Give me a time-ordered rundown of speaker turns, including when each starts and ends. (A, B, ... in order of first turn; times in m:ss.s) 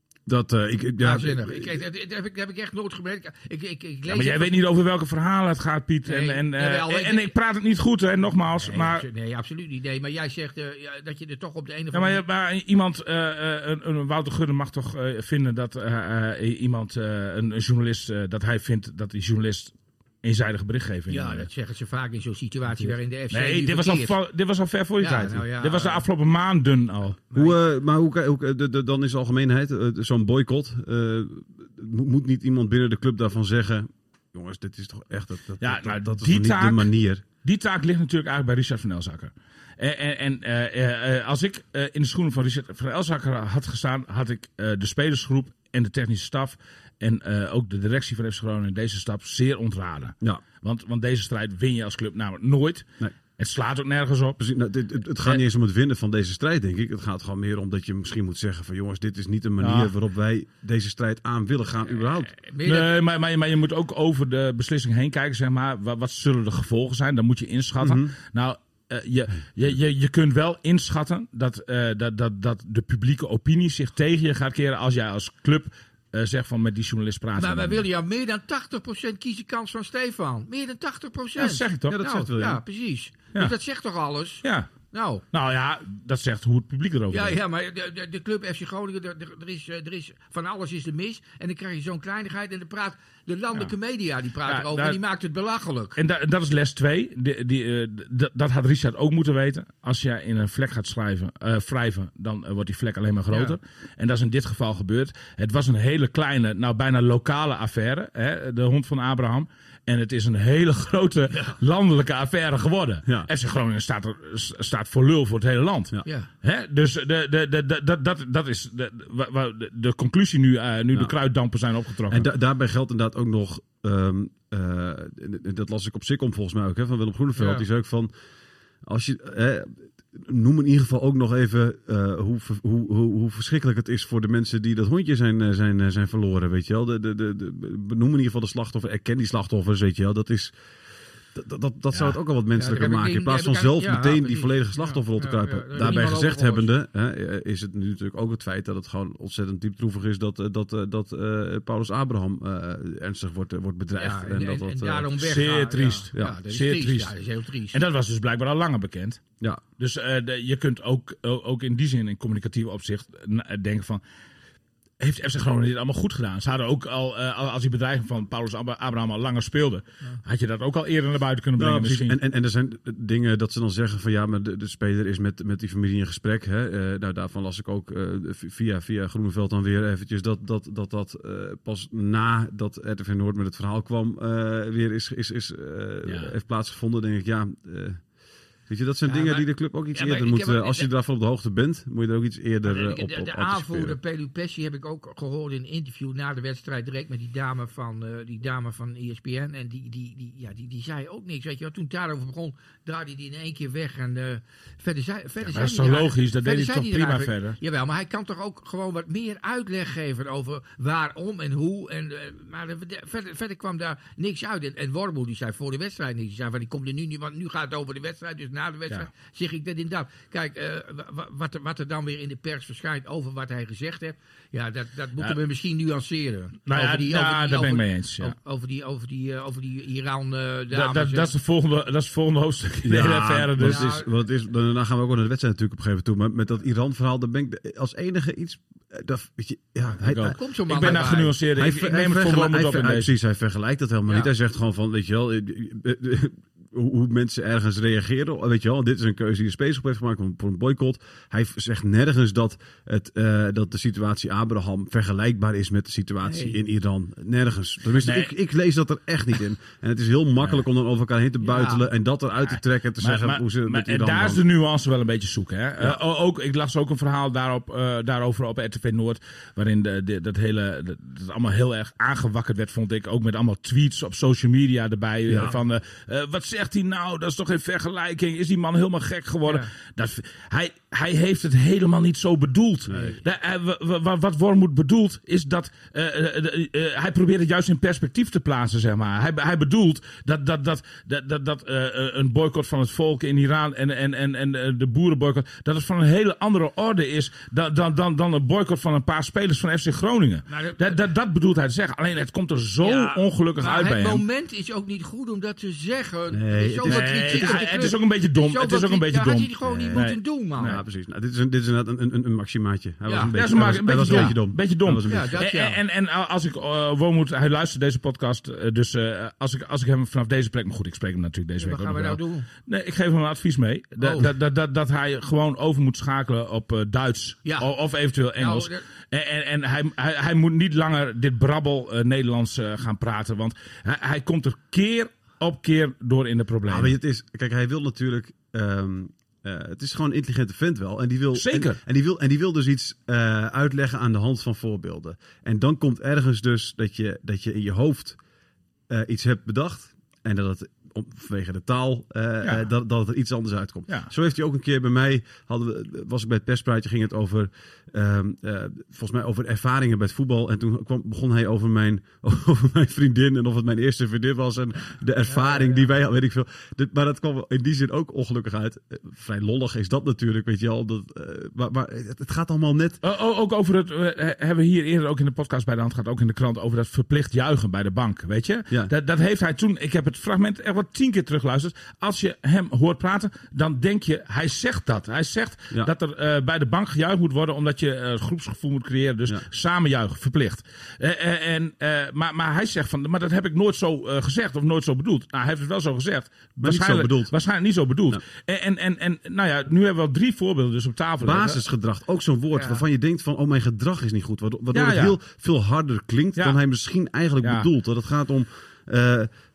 0:00.3-0:01.8 A
0:01.0-0:04.6 B
0:04.1-0:09.1 C
0:06.0-0:07.3 B
0:08.6-0:12.2 B
0:11.9-0:21.5 C
0:21.1-0:24.2 B
0:23.3-0:27.2 C
0:25.0-0:26.0 B
0:27.3-0:37.2 A
0:35.6-0:36.9 C
0:37.4-0:52.9 C
0:53.4-0:54.4 C
0:54.4-1:02.3 A
0:59.6-0:59.9 C
1:02.3-1:03.0 B
1:02.6-1:17.8 C
1:07.8-1:08.1 A
1:17.4-1:25.2 B
1:21.4-1:22.0 C
1:21.9-1:22.6 A
1:24.4-1:24.7 C
1:25.3-1:27.4 C
1:27.1-1:36.0 B
1:34.4-1:35.0 C
1:36.0-2:02.3 C
1:43.3-1:43.6 B
1:51.3-1:51.6 B
2:02.1-2:08.1 A
2:07.4-2:07.6 B
2:08.8-2:20.5 A
2:21.3-2:35.1 A
2:22.6-2:26.7 B
2:34.0-2:37.8 B
2:35.2-2:37.1 C
2:37.7-2:39.2 C
2:39.8-2:44.0 C
2:45.0-2:52.2 C
2:51.6-3:08.0 A
3:06.1-3:06.3 C
3:08.7-3:14.0 A
3:09.1-3:10.9 B
3:12.6-3:51.3 B
3:25.5-3:27.6 C
3:46.7-3:48.3 C
3:50.7-3:53.9 C
3:52.8-4:00.9 A
3:53.6-3:54.1 B
4:00.0-4:03.1 C
4:00.2-4:01.4 B
4:01.5-4:24.4 A
4:16.2-4:16.6 B
4:18.0-4:18.3 C
4:21.4-4:21.8 B
4:23.0-5:04.2 C
4:35.3-4:35.6 A
4:42.9-4:43.2 A
5:00.5-5:01.0 B
5:02.8-5:10.8 B
5:06.3-5:08.0 A
5:06.8-5:10.8 C
5:09.6-5:10.1 A
5:10.6-5:15.4 A
5:13.1-5:13.3 B
5:13.3-5:37.0 C
5:13.9-5:14.3 B
5:15.1-5:15.8 B
5:21.6-5:22.5 B
5:24.0-5:24.3 B
5:27.4-5:27.7 B
5:28.4-5:28.8 B
5:36.7-5:48.2 A
5:41.3-5:41.8 C
5:48.9-6:13.0 A
5:52.4-5:52.7 C
6:05.3-6:05.9 B
6:13.0-6:41.6 C
6:36.6-6:37.3 A
6:41.2-6:49.3 A
6:42.6-6:42.8 B
6:44.7-6:45.2 C
6:47.4-6:47.7 C